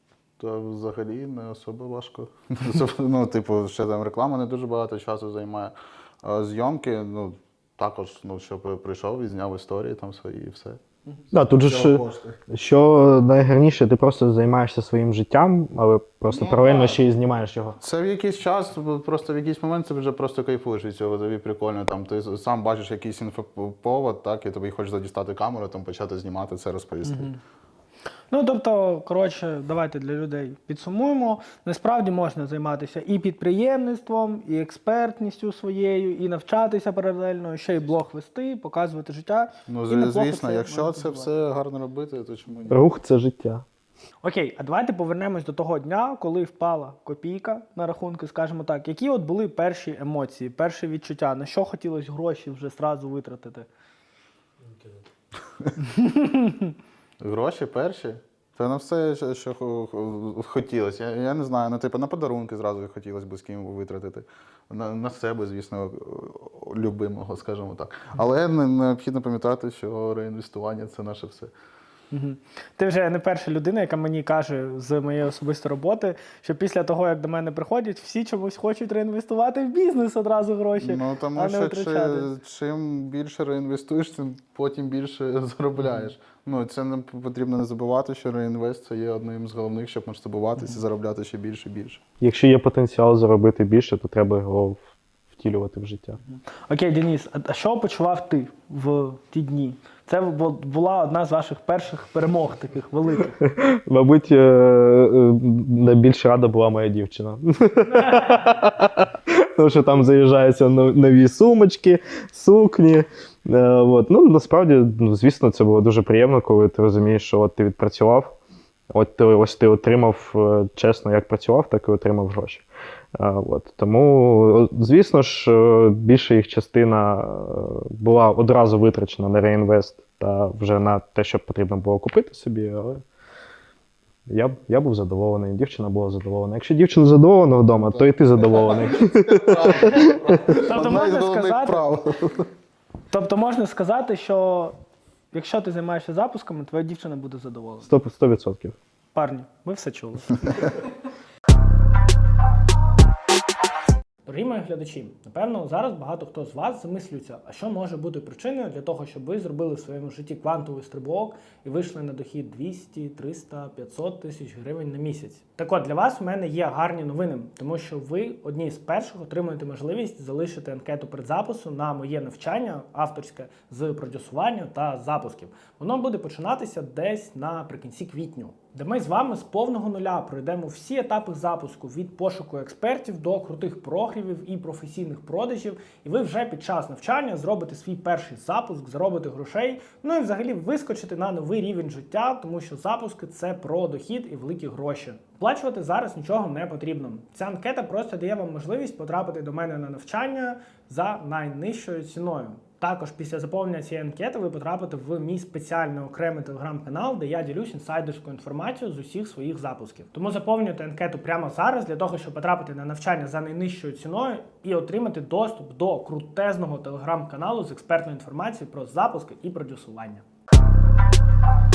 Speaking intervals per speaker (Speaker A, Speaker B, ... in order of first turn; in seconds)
Speaker A: 0.4-10.8, 11.6-12.4, 16.3-17.0, 17.8-27.3, 39.7-42.8, 57.2-71.5, 80.8-92.0, 137.9-142.5
Speaker B: 11.3-17.8, 42.7-43.6, 92.2-94.8, 95.3-96.2, 103.4-118.3, 118.9-133.0, 134.3-140.6, 147.8-148.7
Speaker C: 27.1-27.4, 28.3-41.3, 44.2-53.7, 55.9-56.7, 72.1-82.3, 96.7-103.4, 107.9-108.4, 140.6-141.8, 143.1-144.8, 145.3-147.9, 149.1-150.4, 154.2-220.2